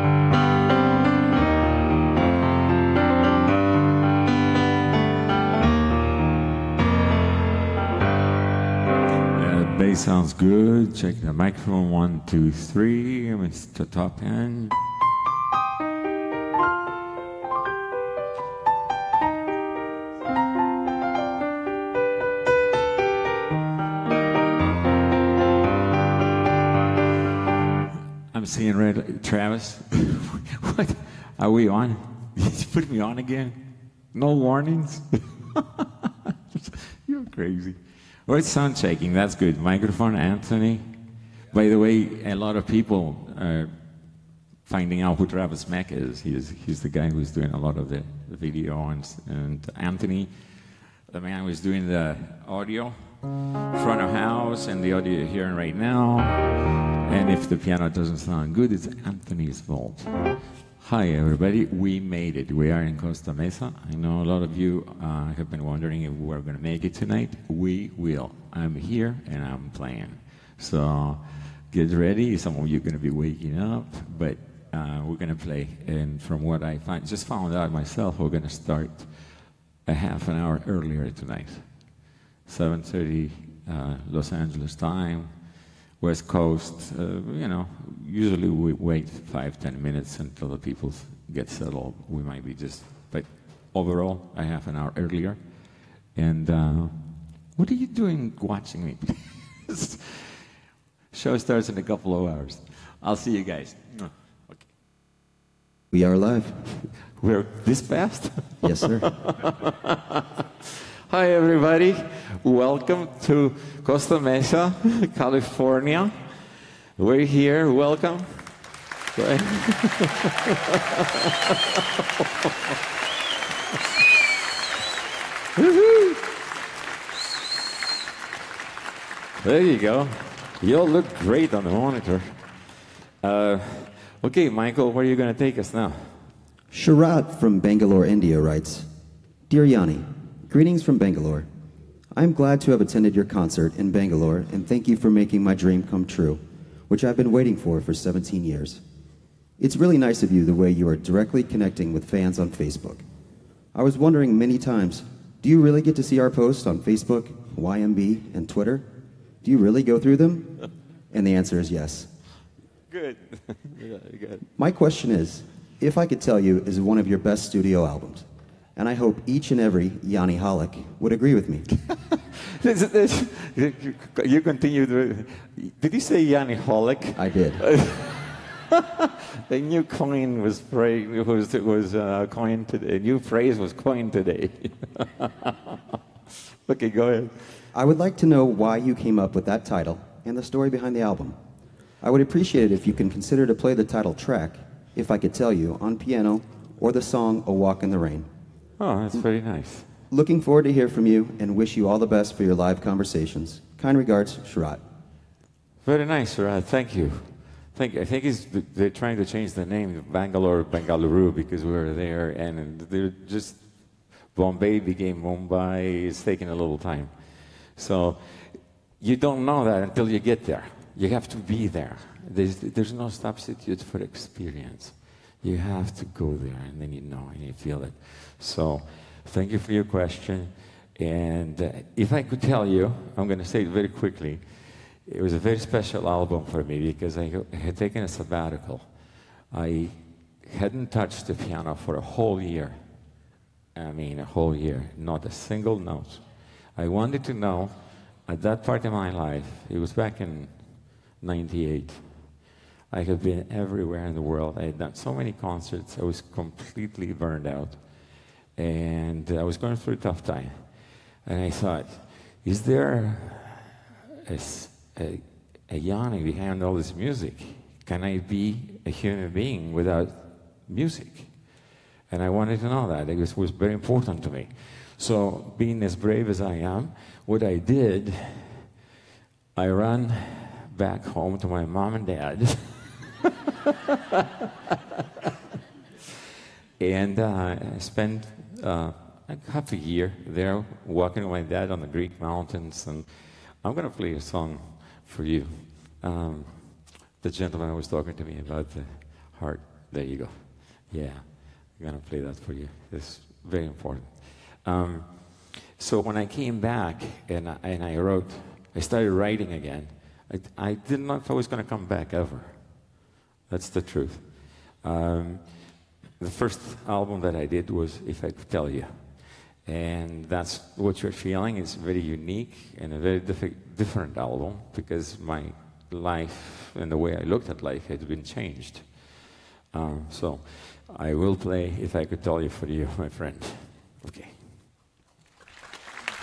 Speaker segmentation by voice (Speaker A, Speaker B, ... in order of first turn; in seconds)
Speaker A: 9.3-14.8, 28.3-33.6, 34.1-40.9, 41.5-44.0, 44.6-53.1, 53.6-100.4, 101.1-104.7, 106.7-110.3, 111.1-122.7, 125.6-126.2, 129.4-136.3, 162.9-164.5, 171.9-186.0, 186.6-187.7, 198.8-199.9, 205.8-243.1, 243.7-278.7, 279.5-283.1, 286.8-312.9, 313.5-334.6
Speaker B: 105.9-106.7, 108.6-109.2, 136.7-138.9, 139.5-141.5, 142.1-148.8, 149.6-153.1, 153.7-158.9, 159.4-162.1, 164.6-171.7, 177.2-177.7, 187.7-191.4, 192.0-198.3, 200.1-204.8